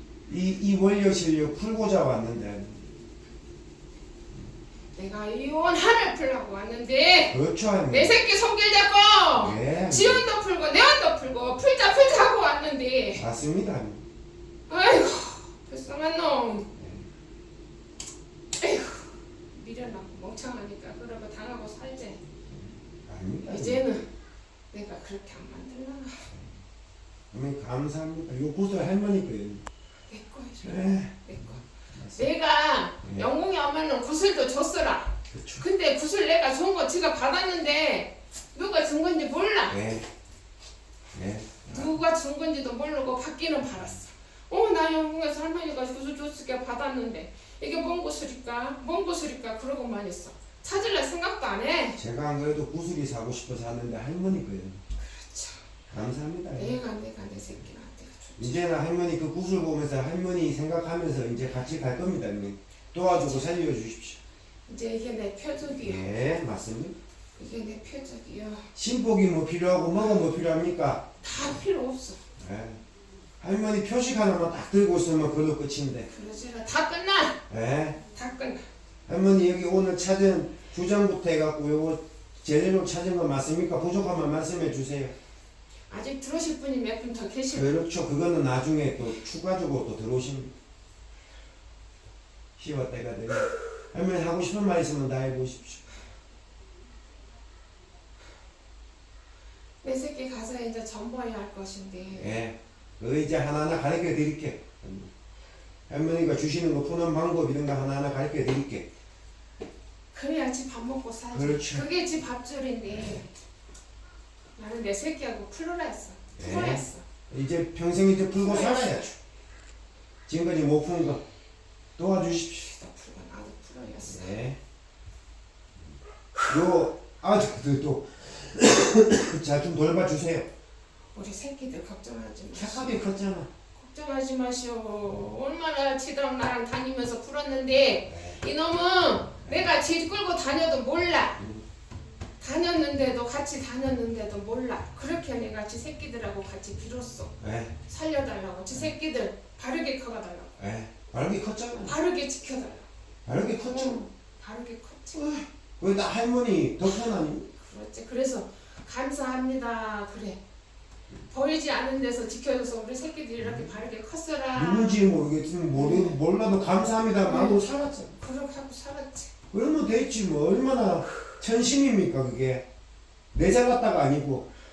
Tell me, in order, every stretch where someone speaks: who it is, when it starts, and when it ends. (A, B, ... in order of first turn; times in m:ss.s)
0:00.3-0:02.9 A
0:04.9-0:13.2 B
0:07.3-0:08.2 A
0:09.4-0:10.2 A
0:13.2-0:14.0 A
0:14.7-0:16.7 B
0:16.8-0:17.1 A
0:18.6-0:22.2 B
0:22.5-0:23.8 A
0:23.5-0:24.0 B
0:24.7-0:26.2 B
0:26.3-0:26.6 A
0:27.3-0:29.6 A
0:30.1-0:31.6 B
0:30.6-0:32.3 A
0:32.2-0:39.8 B
0:33.0-0:33.3 A
0:35.3-0:35.6 A
0:39.7-0:40.0 A
0:41.1-0:41.9 A
0:41.7-0:52.0 B
0:52.0-0:54.8 A
0:55.0-0:55.6 B
0:55.9-0:56.8 A
0:56.5-0:58.7 B
0:58.4-1:04.2 A
1:03.1-1:03.4 B
1:04.7-1:06.1 B
1:05.8-1:07.0 A
1:07.4-1:08.7 B
1:08.7-1:11.0 A
1:11.2-1:12.2 B
1:12.4-1:12.8 A
1:13.4-1:16.1 A
1:16.1-1:17.4 B
1:17.5-1:18.0 A
1:18.1-1:18.6 B
1:19.1-1:25.1 A
1:25.9-1:27.8 B
1:27.5-1:30.5 A
1:32.6-1:35.8 A
1:39.8-1:42.4 B
1:42.1-1:45.1 A
1:45.9-1:48.8 A
1:50.1-1:53.3 B
1:51.3-1:51.9 A
1:54.6-1:57.0 B
1:56.4-1:59.1 A
1:58.4-1:59.1 B
2:00.3-2:01.2 A
2:02.0-2:02.7 A
2:02.6-2:04.4 B
2:04.0-2:04.6 A
2:06.5-2:10.5 A
2:11.1-2:13.1 B
2:12.5-2:13.5 A
2:13.7-2:21.4 B
2:18.1-2:18.4 A
2:21.4-2:21.6 A
2:22.4-2:30.6 B
2:27.4-2:27.8 A
2:30.6-2:32.0 A
2:31.8-2:32.9 B
2:33.2-2:34.0 A
2:33.6-2:35.2 B
2:35.1-2:37.5 A
2:37.6-2:40.4 B
2:41.3-2:45.0 B
2:43.4-2:43.7 A
2:44.5-2:48.2 A
2:45.7-2:46.2 B
2:47.2-2:47.6 B
2:48.2-2:49.3 B
2:49.5-2:52.6 A
2:53.3-2:54.5 A